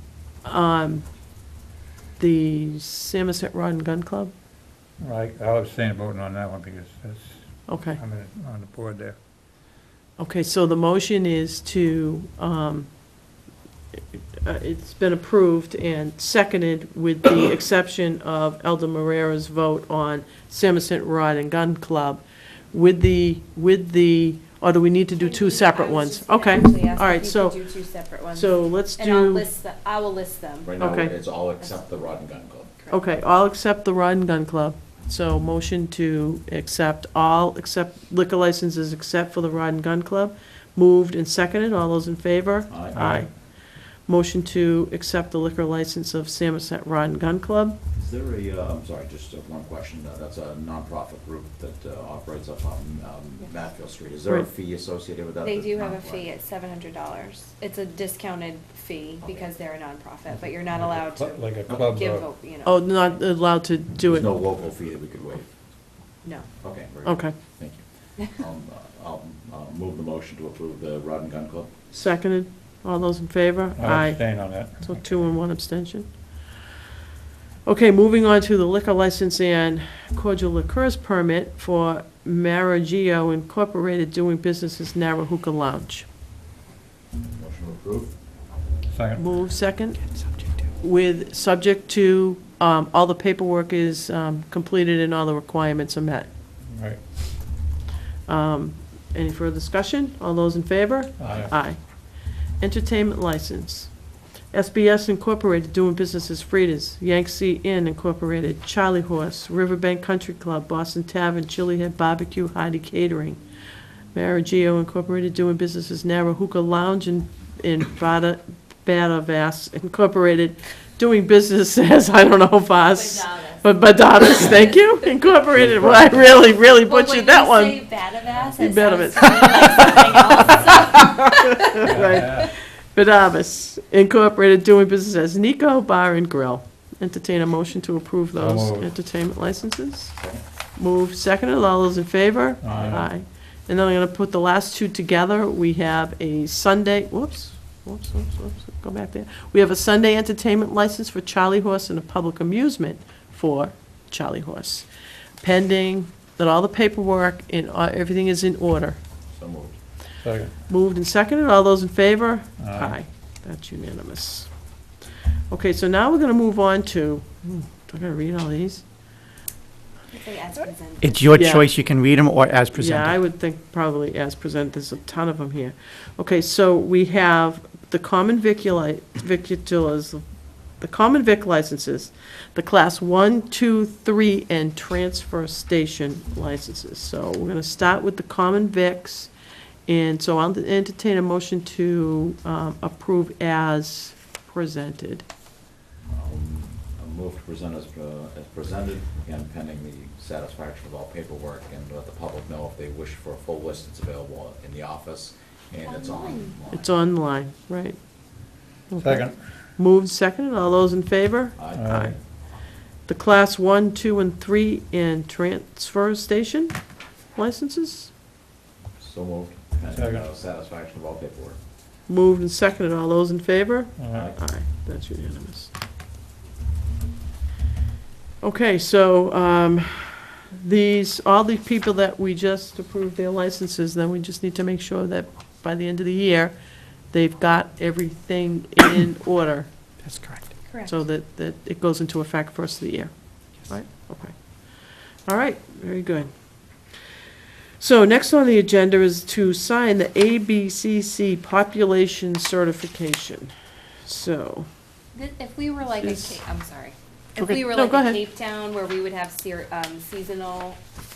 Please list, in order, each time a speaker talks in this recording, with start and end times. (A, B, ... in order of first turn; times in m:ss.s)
0:00.4-0:01.0 A
0:02.2-0:04.3 A
0:05.0-0:09.2 B
0:07.7-0:08.0 A
0:10.2-0:12.9 A
0:14.0-0:22.2 A
0:22.7-0:27.6 A
0:25.2-0:30.7 C
0:28.3-0:29.5 A
0:30.6-0:32.7 D
0:30.8-0:31.1 A
0:32.9-0:43.3 A
0:42.7-0:43.0 D
0:42.9-0:43.3 B
0:44.1-0:47.8 A
0:48.0-0:56.3 D
0:55.4-1:03.0 C
1:00.8-1:02.2 B
1:01.7-1:02.0 D
1:02.6-1:04.3 A
1:04.0-1:05.5 D
1:06.6-1:11.7 D
1:07.0-1:07.3 A
1:11.9-1:16.1 A
1:13.8-1:15.2 B
1:17.6-1:26.1 A
1:27.3-1:28.1 D
1:28.9-1:29.2 B
1:29.2-1:30.0 A
1:30.8-1:36.3 A
1:36.7-1:37.0 B
1:38.3-1:41.8 A
1:41.2-1:41.5 B
1:42.6-1:43.9 A
1:44.5-1:53.4 A
1:54.1-2:07.8 A
2:02.7-2:04.9 C
2:05.6-2:06.2 B
2:06.8-2:12.5 C
2:08.6-2:20.2 A
2:11.8-2:12.5 B
2:18.4-2:18.9 B
2:20.8-2:34.9 A
2:22.6-2:23.1 B
2:22.7-2:23.0 D
2:35.4-2:39.0 A
2:39.3-2:39.8 D
2:40.2-2:40.5 B
2:40.7-2:44.5 A
2:42.6-2:43.0 B
2:45.5-2:48.8 A
2:50.1-2:51.5 C
2:51.0-2:53.2 E
2:51.4-2:51.6 A
2:52.7-3:00.2 A
3:00.8-3:09.3 A
3:09.9-3:15.2 A
3:16.1-3:26.9 D
3:25.9-3:26.5 C
3:26.7-3:28.0 A
3:28.9-3:32.2 A
3:29.0-3:29.4 B
3:31.6-3:32.0 D
3:31.7-3:32.2 B
3:33.1-3:36.8 A
3:37.4-3:38.1 A
3:39.0-3:41.6 D
3:39.9-3:40.3 B
3:42.1-3:45.7 A
3:44.0-3:44.3 B
3:44.1-3:44.4 D
3:48.4-3:56.5 A
3:57.1-3:59.7 A
4:00.0-4:00.6 E
4:00.7-4:01.0 C
4:00.8-4:04.4 A
4:05.3-4:06.3 A
4:07.8-4:13.5 A
4:14.0-4:14.7 A
4:15.2-4:20.8 C
4:16.0-4:16.4 A
4:17.4-4:18.2 A